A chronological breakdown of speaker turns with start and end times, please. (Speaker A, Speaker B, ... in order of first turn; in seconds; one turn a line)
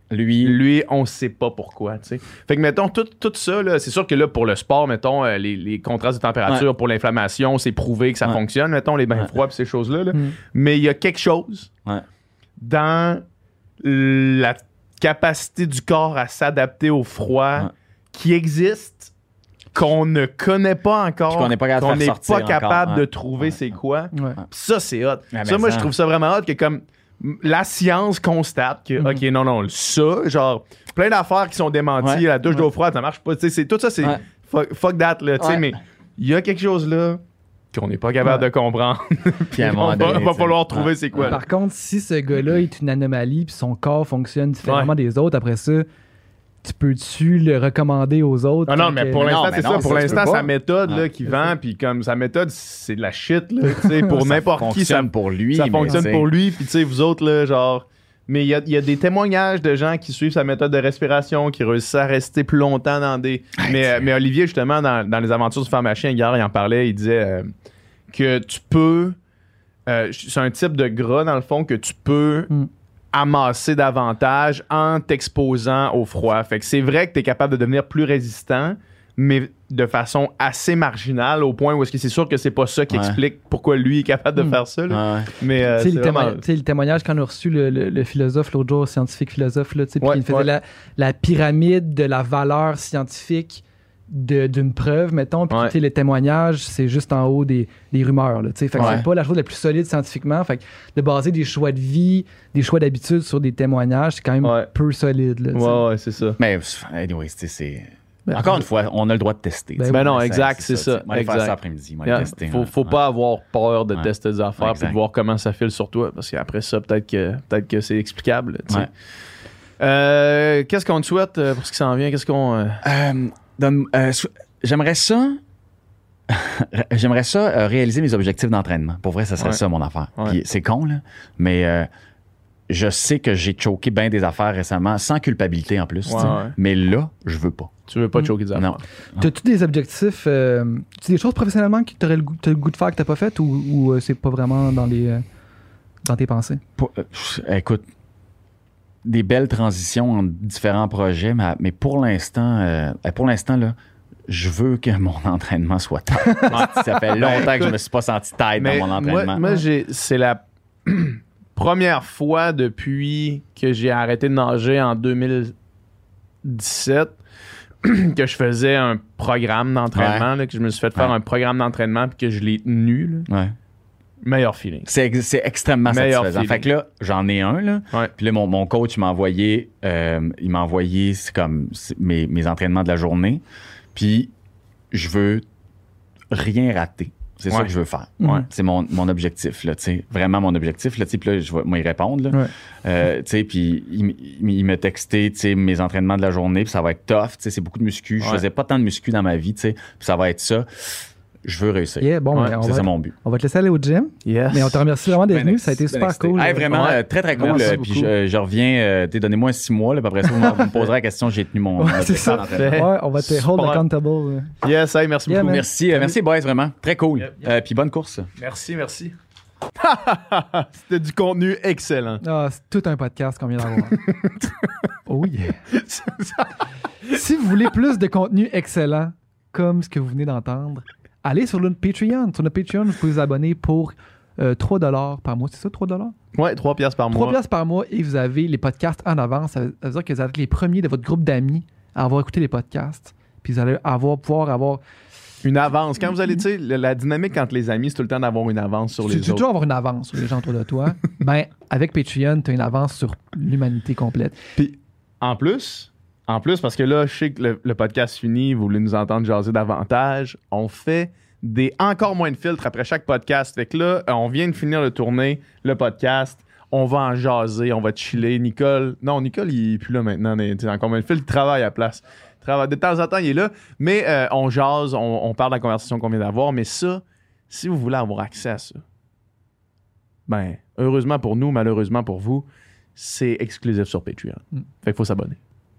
Speaker A: 0.1-0.6
Speaker B: 0.4-11.7
Speaker B: 12.6-13.2
Speaker B: 13.8-19.1
Speaker B: 19.7-37.2
Speaker A: 21.3-23.1
Speaker C: 24.1-24.4
Speaker A: 25.3-25.9
Speaker A: 35.4-35.7
Speaker B: 37.7-41.4
Speaker A: 39.5-41.4
Speaker C: 41.2-45.9
Speaker B: 44.6-44.9
Speaker C: 46.6-49.4
Speaker B: 48.7-67.5
Speaker A: 49.2-51.0
Speaker C: 53.8-54.0
Speaker A: 54.1-56.3
Speaker A: 63.6-64.1
Speaker B: 68.1-69.2
Speaker B: 69.9-72.5
Speaker B: 73.1-86.4
Speaker A: 82.9-83.2
Speaker A: 84.9-85.3
Speaker C: 85.6-105.8
Speaker B: 90.0-90.5
Speaker B: 98.8-99.0
Speaker A: 98.8-99.0
Speaker B: 104.4-104.7
Speaker B: 105.5-106.4
Speaker A: 106.4-113.0
Speaker B: 108.3-108.6
Speaker C: 109.8-110.0
Speaker B: 109.9-118.9
Speaker A: 113.9-115.0
Speaker B: 119.8-122.8
Speaker A: 122.8-125.4
Speaker A: 126.3-131.9
Speaker A: 132.7-137.7
Speaker B: 136.1-136.5
Speaker B: 137.9-138.8
Speaker A: 138.5-139.2
Speaker C: 139.2-145.2
Speaker C: 146.0-146.6
Speaker A: 146.8-147.9
Speaker A: 149.0-153.8
Speaker A: 154.3-159.4
Speaker C: 156.2-156.5
Speaker B: 156.5-157.8
Speaker B: 158.6-165.5
Speaker B: 166.4-167.2
Speaker B: 167.8-173.3
Speaker A: 169.9-170.3
Speaker A: 173.3-173.5
Speaker B: 174.2-174.9
Speaker A: 174.9-183.4
Speaker B: 175.9-176.7
Speaker A: 183.9-184.3
Speaker A: 184.9-185.4
Speaker A: 186.3-203.1
Speaker C: 202.0-208.1
Speaker B: 204.2-204.8
Speaker A: 205.1-212.8
Speaker B: 206.7-207.8
Speaker C: 211.8-214.5
Speaker B: 212.1-213.8
Speaker B: 214.6-215.6
Speaker C: 215.3-216.1
Speaker A: 215.4-218.3
Speaker B: 218.4-219.1
Speaker B: 219.8-222.2
Speaker C: 222.2-224.0
Speaker B: 223.9-224.6
Speaker C: 225.1-225.6
Speaker B: 225.7-226.5
Speaker C: 227.1-236.1
Speaker B: 236.3-237.3
Speaker C: 237.1-244.8
Speaker B: 245.4-249.4
Speaker C: 249.0-254.4
Speaker B: 254.6-278.8
Speaker B: 280.3-285.4